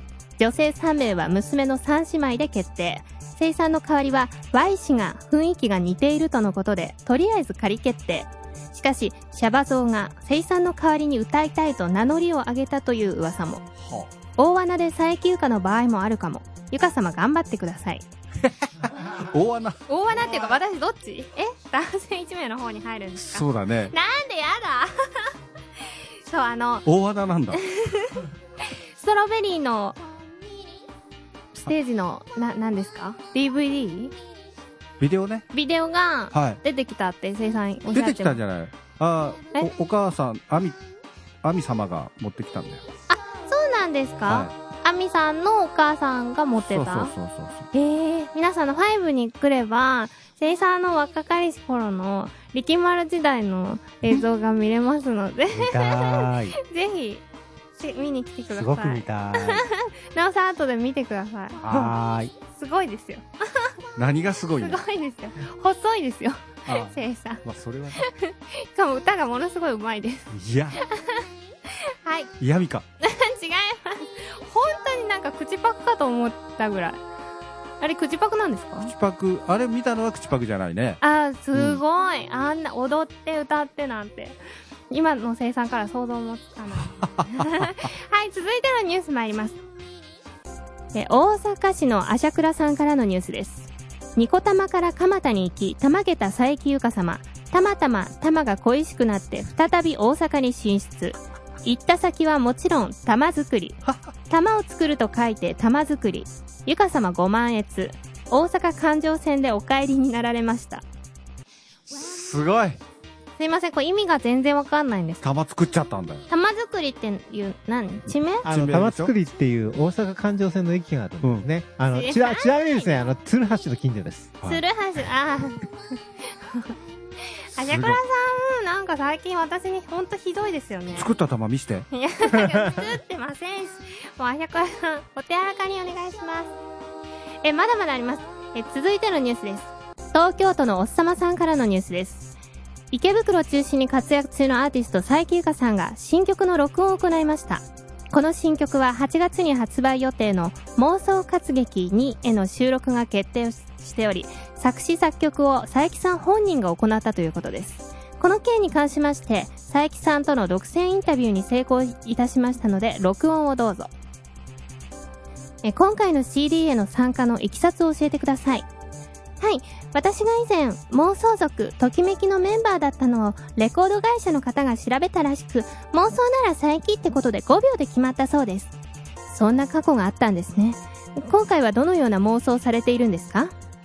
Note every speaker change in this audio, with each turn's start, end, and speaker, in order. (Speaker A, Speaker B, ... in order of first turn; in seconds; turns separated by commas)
Speaker A: 0.4-13.6, Speaker B: 13.8-14.1, Speaker A: 14.4-18.0, Speaker B: 18.4-19.8, Speaker A: 19.9-25.3, Speaker B: 23.1-23.9, Speaker A: 26.2-26.8, Speaker B: 26.8-27.6, Speaker A: 27.5-28.2, Speaker A: 29.0-30.0, Speaker A: 31.6-34.1, Speaker B: 35.0-35.5, Speaker A: 35.5-38.4, Speaker B: 36.3-36.6, Speaker B: 37.9-40.8, Speaker B: 41.4-42.8, Speaker A: 43.1-47.1, Speaker B: 44.3-44.5, Speaker B: 46.7-47.7, Speaker A: 47.7-57.2, Speaker C: 55.5-56.5, Speaker A: 57.8-61.6, Speaker C: 58.5-59.6, Speaker B: 61.6-62.0, Speaker C: 61.7-62.3, Speaker A: 62.5-63.6, Speaker B: 64.0-64.8, Speaker A: 64.6-67.4, Speaker B: 66.7-68.0, Speaker A: 68.0-70.3, Speaker B: 70.3-70.8, Speaker A: 70.8-71.2, Speaker A: 72.0-72.3, Speaker B: 72.4-72.8, Speaker A: 73.0-77.0, Speaker A: 77.8-78.9, Speaker B: 78.8-81.0, Speaker A: 81.0-84.4, Speaker B: 81.5-81.8, Speaker A: 84.9-89.6, Speaker B: 87.0-87.7, Speaker A: 90.9-110.8, Speaker B: 111.9-112.8, Speaker A: 113.4-115.2, Speaker B: 115.2-116.2, Speaker A: 116.3-118.4, Speaker B: 118.4-119.1, Speaker C: 118.4-124.3, Speaker B: 121.2-121.5, Speaker A: 121.9-123.0, Speaker A: 124.5-125.6, Speaker A: 127.5-131.1, Speaker B: 127.6-128.0, Speaker B: 130.9-131.9, Speaker A: 131.9-136.5, Speaker A: 137.4-142.3, Speaker A: 142.9-163.9, Speaker A: 165.6-168.7, Speaker A: 169.4-178.7, Speaker A: 179.3-183.5